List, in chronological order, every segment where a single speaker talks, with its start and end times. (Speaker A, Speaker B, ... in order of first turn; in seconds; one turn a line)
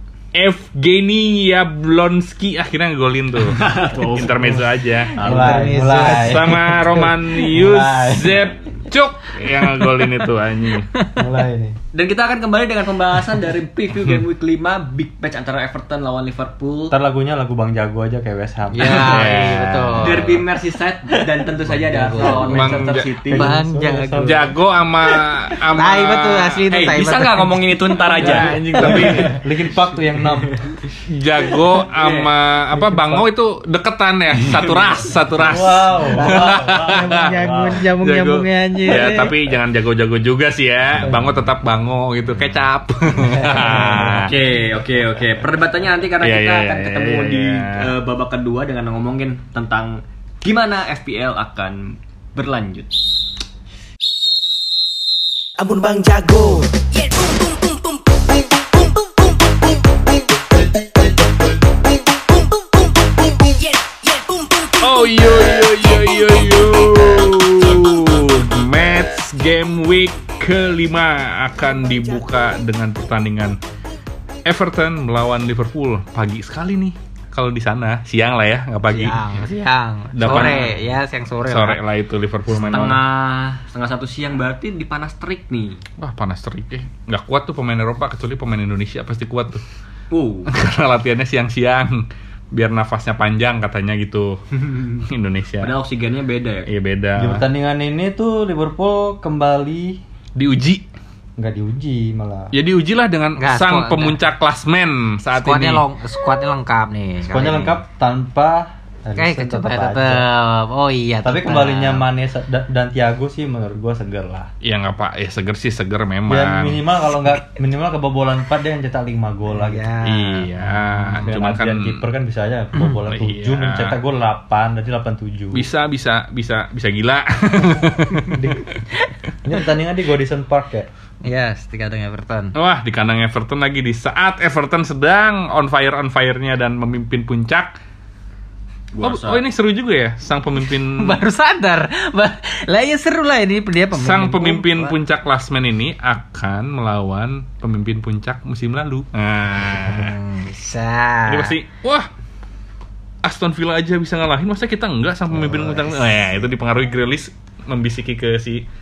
Speaker A: 0.3-5.1
Speaker B: 3.4-4.6
Speaker C: 4.4-8.4
Speaker B: 5.1-5.8
Speaker D: 5.2-7.0
Speaker A: 5.9-10.9
Speaker B: 8.2-8.9
Speaker D: 10.9-11.2
Speaker C: 11.1-11.8
Speaker B: 11.9-17.0
Speaker C: 16.9-19.5
Speaker D: 18.7-20.4
Speaker A: 19.0-20.2
Speaker B: 20.0-23.6
Speaker C: 21.1-24.6
Speaker D: 22.0-22.6
Speaker A: 22.5-23.1
Speaker D: 23.3-24.5
Speaker A: 24.2-26.6
Speaker D: 25.7-27.8
Speaker B: 26.7-29.4
Speaker A: 28.1-29.3
Speaker C: 28.2-30.6
Speaker B: 30.2-30.8
Speaker A: 31.1-44.3
Speaker B: 31.8-32.3
Speaker C: 32.7-33.3
Speaker B: 34.4-35.3
Speaker C: 35.4-37.8
Speaker D: 36.1-39.3
Speaker C: 41.0-41.3
Speaker C: 43.4-44.2
Speaker D: 43.4-44.2
Speaker B: 44.1-53.0
Speaker A: 46.2-47.9
Speaker E: 55.6-58.0
Speaker E: 63.9-64.8
Speaker A: 64.8-73.6
Speaker A: 74.5-79.2
Speaker D: 78.9-81.8
Speaker A: 80.1-80.8
Speaker B: 80.2-80.7
Speaker A: 81.4-83.0
Speaker B: 82.5-85.8
Speaker A: 86.0-89.6
Speaker B: 90.1-90.5
Speaker A: 90.5-94.4
Speaker B: 94.5-95.0
Speaker A: 95.0-95.7
Speaker B: 95.6-96.7
Speaker A: 96.7-97.5
Speaker C: 97.2-100.0
Speaker A: 100.3-100.9
Speaker C: 101.4-102.5
Speaker A: 102.5-105.8
Speaker D: 103.4-104.2
Speaker D: 105.3-107.8
Speaker C: 107.3-110.3
Speaker D: 109.2-112.0
Speaker C: 111.2-114.5
Speaker A: 114.6-116.8
Speaker C: 116.3-119.9
Speaker D: 119.5-121.3
Speaker A: 120.0-122.0
Speaker C: 121.2-125.7
Speaker A: 123.0-124.0
Speaker A: 125.5-128.6
Speaker C: 128.3-128.8
Speaker C: 129.4-130.9
Speaker D: 131.2-132.5
Speaker A: 132.5-137.8
Speaker B: 138.9-139.4
Speaker A: 139.0-141.2
Speaker D: 140.7-144.9
Speaker A: 143.9-150.2
Speaker D: 149.8-151.6
Speaker A: 151.3-152.1
Speaker A: 153.2-158.6
Speaker C: 155.3-156.2